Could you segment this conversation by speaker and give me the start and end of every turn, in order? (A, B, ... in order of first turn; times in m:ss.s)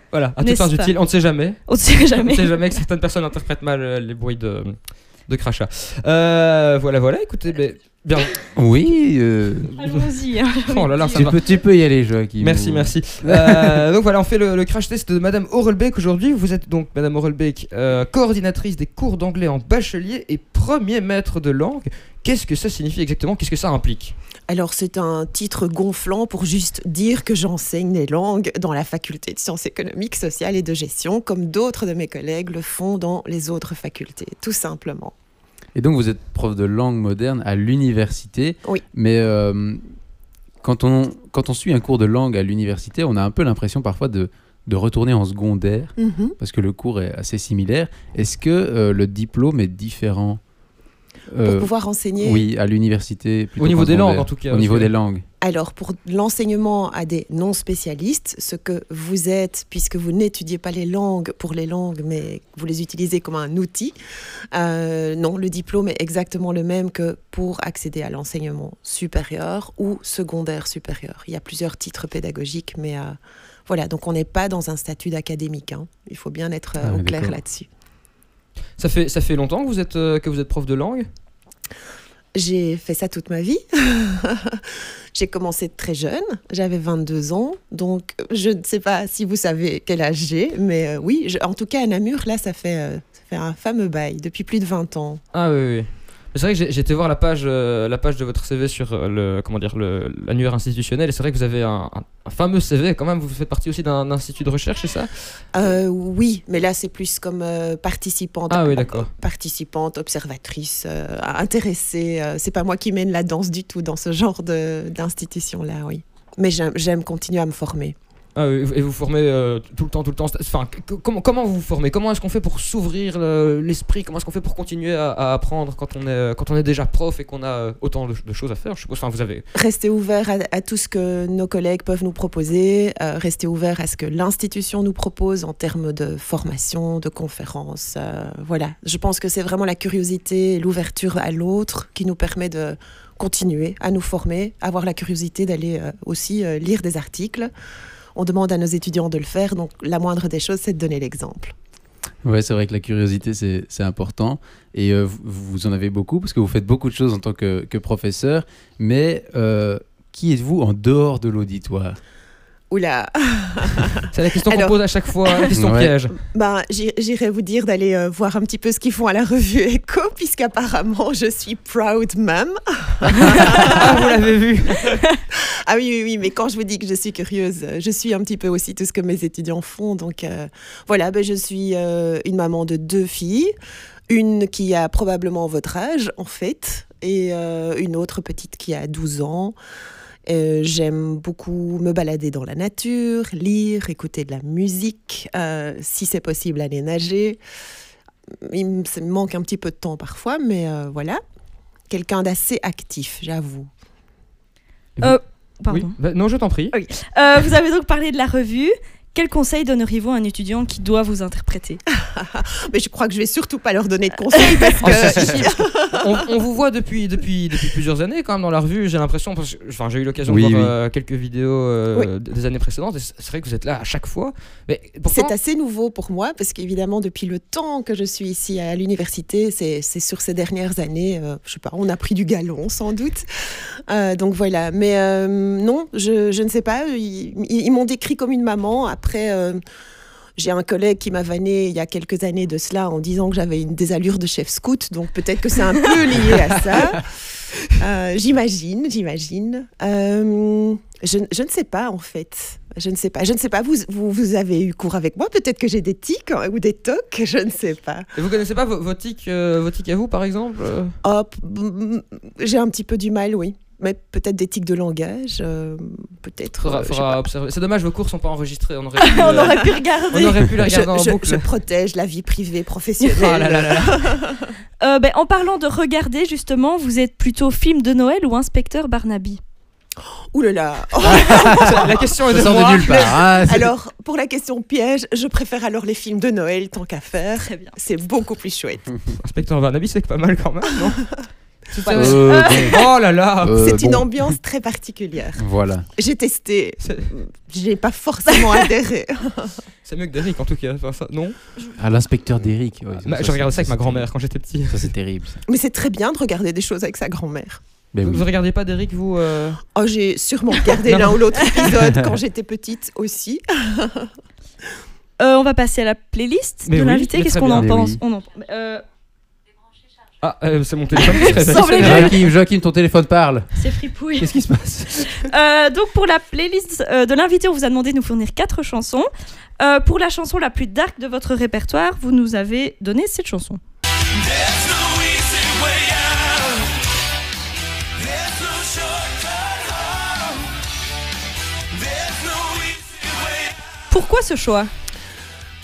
0:00.1-0:08.4 A
0:00.3-0:01.0 B
0:01.6-0:02.6 B
0:08.6-0:09.7 C
0:09.7-0:11.4 B
0:10.7-0:11.4 A
0:11.1-0:13.8 C
0:12.4-0:24.1 A
0:24.5-0:35.1 D
0:35.7-0:39.8 C
0:40.6-0:50.4 C
0:46.0-0:46.3 D
0:51.3-0:55.2 C
0:51.4-0:52.5 D
0:53.6-0:54.9 A
0:55.4-1:03.9 D
1:04.5-1:13.2 D
1:13.7-1:17.7 D
1:16.8-1:17.4 C
1:18.8-1:21.1 A
1:22.3-1:24.6 D
1:25.1-1:35.2 D
1:35.3-1:45.1 A
1:45.5-1:58.0 D
1:48.5-1:49.1 A
1:58.3-2:09.4 A
2:09.5-2:27.5 D
2:28.1-2:31.5 D
2:32.2-2:42.0 C
2:42.7-2:45.5 D
2:44.1-2:46.2 A
2:45.5-2:45.9 C
2:46.2-2:54.0 D
2:53.5-2:55.0 A
2:55.6-3:03.5 D
3:04.1-3:09.5 D
3:10.3-3:17.4 D
3:18.5-3:21.2 D
3:21.9-3:23.7 D
3:25.0-3:26.7 A
3:25.0-3:26.0 B
3:26.7-3:31.8 B
3:32.1-3:35.9 D
3:34.8-3:45.3 A
3:40.2-3:40.7 C
3:45.0-3:53.2 D
3:53.9-3:59.6 D
4:00.4-4:07.1 D
4:07.8-4:18.1 D
4:18.1-4:21.0 A
4:21.0-4:27.2 D
4:26.6-4:31.5 A
4:29.0-4:30.4 B
4:29.2-4:29.8 D
4:30.6-4:34.5 D
4:33.0-4:34.1 A
4:34.8-4:39.4 B
4:40.3-4:48.8 D
4:41.0-4:43.7 C
4:41.3-4:43.1 A
4:47.3-4:47.8 B
4:49.2-4:51.1 A
4:51.7-4:53.5 A
4:51.9-4:52.8 C
4:51.9-4:52.7 B
4:53.4-4:54.3 C
4:53.6-4:55.4 D
4:55.4-4:55.9 C
4:56.0-4:59.5 D
4:56.8-4:57.1 A
4:59.8-5:01.4 A
5:01.8-5:04.1 C
5:03.0-5:04.9 A
5:04.7-5:05.4 C
5:05.5-5:07.6 D
5:07.9-5:08.2 C
5:08.0-5:09.6 A
5:09.7-5:14.1 D
5:10.8-5:11.4 A
5:15.2-5:18.8 B
5:16.6-5:17.7 A
5:17.5-5:18.0 C
5:20.2-5:22.1 A
5:21.0-5:22.2 B
5:21.3-5:25.1 C
5:23.6-5:24.3 B
5:25.0-5:29.1 B
5:29.6-5:33.6 B
5:43.9-5:44.7 B